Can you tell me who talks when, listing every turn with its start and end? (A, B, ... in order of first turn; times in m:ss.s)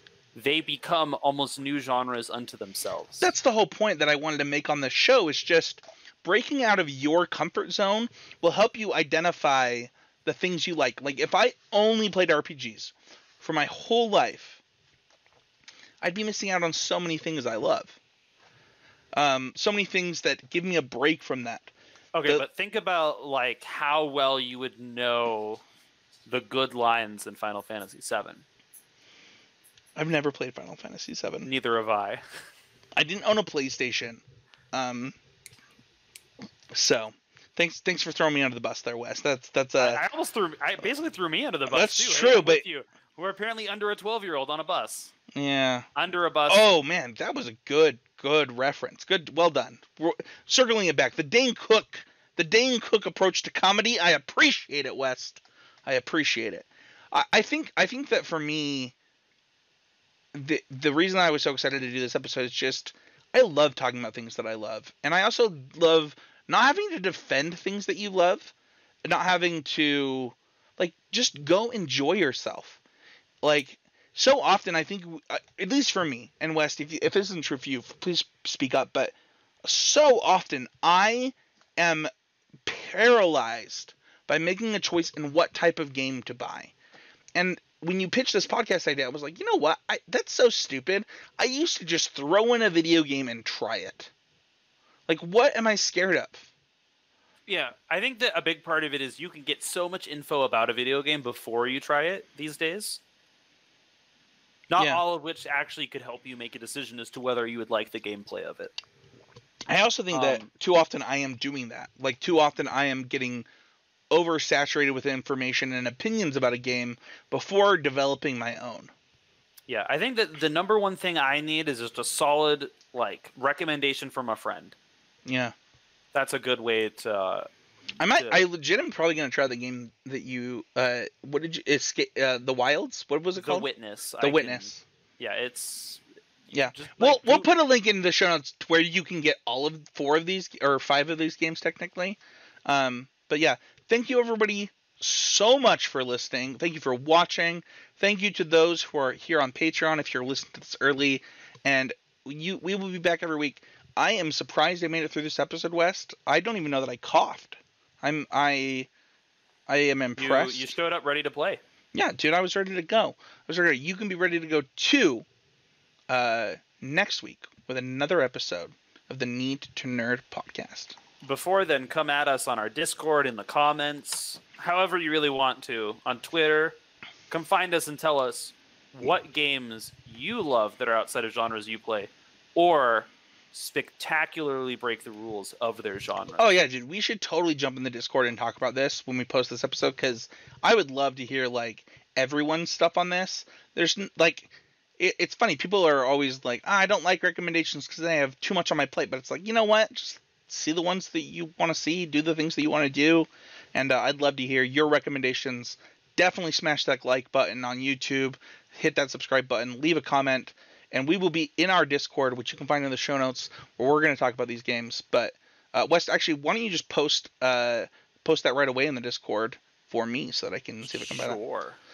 0:00.3-0:03.3 A
0:03.2-0:14.6 B
0:16.0-0:18.0 B
0:19.1-0:21.7 B
0:22.2-0:25.6 A
0:26.3-0:28.4 A
0:30.0-0:31.5 B
0:31.4-0:32.2 A
0:33.0-0:34.2 B
0:34.7-0:35.2 B
0:36.7-0:40.0 B
0:39.8-0:45.1 A
0:41.7-0:42.6 B
0:45.3-0:45.9 B
0:46.0-0:46.7 A
0:46.5-0:58.9 B
1:00.3-1:08.5 B
1:09.1-1:12.8 B
1:13.4-1:19.1 B
1:19.6-1:22.1 B
1:22.6-1:26.7 B
1:27.4-1:34.1 B
1:35.1-1:36.5 B
1:37.5-1:43.0 A
1:44.7-1:48.8 A
1:44.8-1:45.0 B
1:49.7-1:53.5 B
1:50.1-1:50.5 A
1:54.1-1:58.9 B
1:59.7-2:04.8 A
2:05.3-2:05.5 B
2:06.1-2:07.5 A
2:08.0-2:13.7 B
2:08.1-2:08.4 A
2:13.4-2:17.5 A
2:14.2-2:14.8 B
2:16.5-2:38.9 B
2:39.7-2:40.7 B
2:40.2-2:41.6 A
2:41.9-2:45.3 B
2:46.1-2:51.0 B
2:51.2-2:56.8 A
2:57.3-3:06.5 A
3:06.4-3:41.4 B
3:40.8-3:41.8 A